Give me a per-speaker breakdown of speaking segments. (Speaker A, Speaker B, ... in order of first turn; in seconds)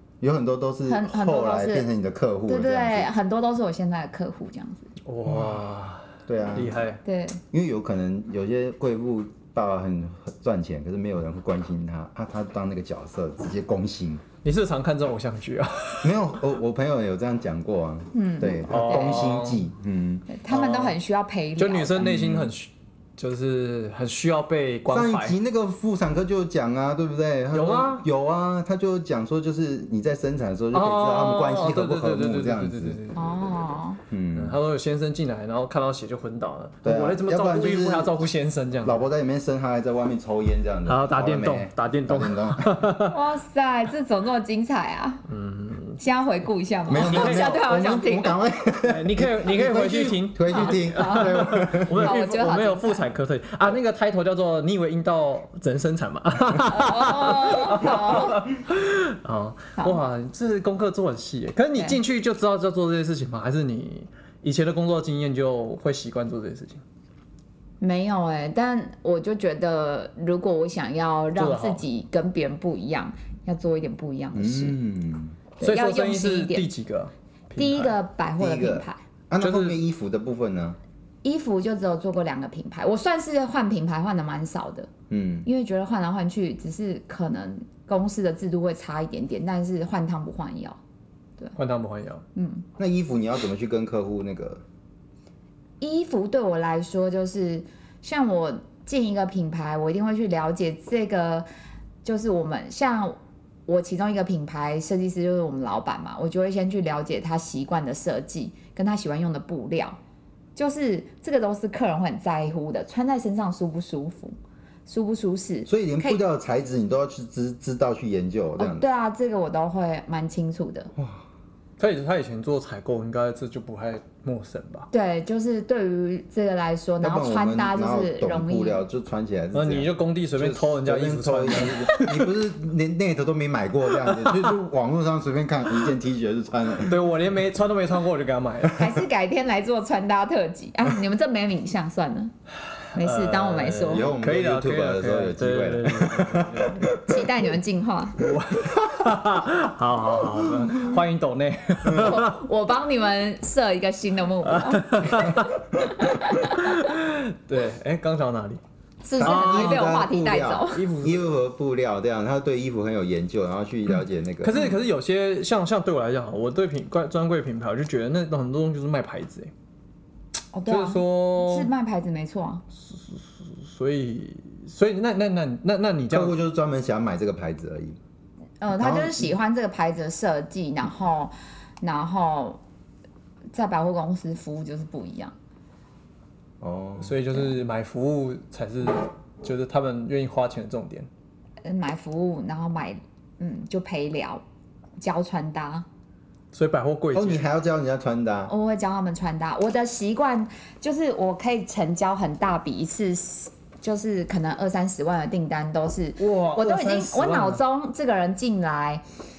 Speaker A: 0.2-3.1, 5.3-5.6, 6.3-6.8, 7.5-14.2, 16.0-20.3, 22.0-22.5, 24.9-33.0, 34.1-34.6, 36.8-38.2, 38.8-42.9, 46.9-52.1, 74.3-75.4, 78.4-80.8, 85.1-85.5, 92.8-94.6, 115.7-118.8, 127.0-137.0, 143.9-147.0, 151.9-152.2, 159.2-164.7, 176.1-178.0, 178.8-179.3, 186.6-187.2, 197.1-198.5
Speaker B: 0.9-1.9, 2.5-4.9, 7.0-7.4, 18.1-19.3, 20.3-22.1, 33.1-34.0, 43.1-45.2, 46.0-48.4, 50.5-53.0, 56.7-58.5, 67.8-74.8, 75.6-76.7, 77.6-79.0, 81.2-84.9, 85.5-90.8, 92.4-92.7, 95.8-101.5, 102.0-103.2, 103.7-110.0, 110.6-114.3, 114.9-116.2, 118.6-120.9, 124.9-128.8, 138.8-142.3, 142.9-144.1, 147.1-148.2, 151.9-156.9, 159.0-160.8, 170.5-172.6, 178.6-182.6, 183.5-185.3, 191.6-194.4, 195.0-195.8, 198.5-209.0
Speaker C: 5.1-7.0, 14.4-16.2, 18.7-19.7, 20.5-21.0, 21.6-25.4, 27.5-28.1, 30.7-33.8, 34.3-39.0, 40.9-43.2, 45.3-46.0, 47.0-47.6, 48.9-66.8, 71.4-71.8, 75.6-78.0, 79.4-79.8, 91.6-92.2, 121.8-124.9, 129.5-132.3, 134.1-134.5, 136.8-138.9, 142.9-147.0, 148.2-152.4, 154.5-155.6, 156.2-158.6, 159.2-160.0, 160.7-161.3, 164.4-169.5, 170.7-171.7, 172.8-176.4, 187.0-191.1, 196.5-197.4, 206.2-207.6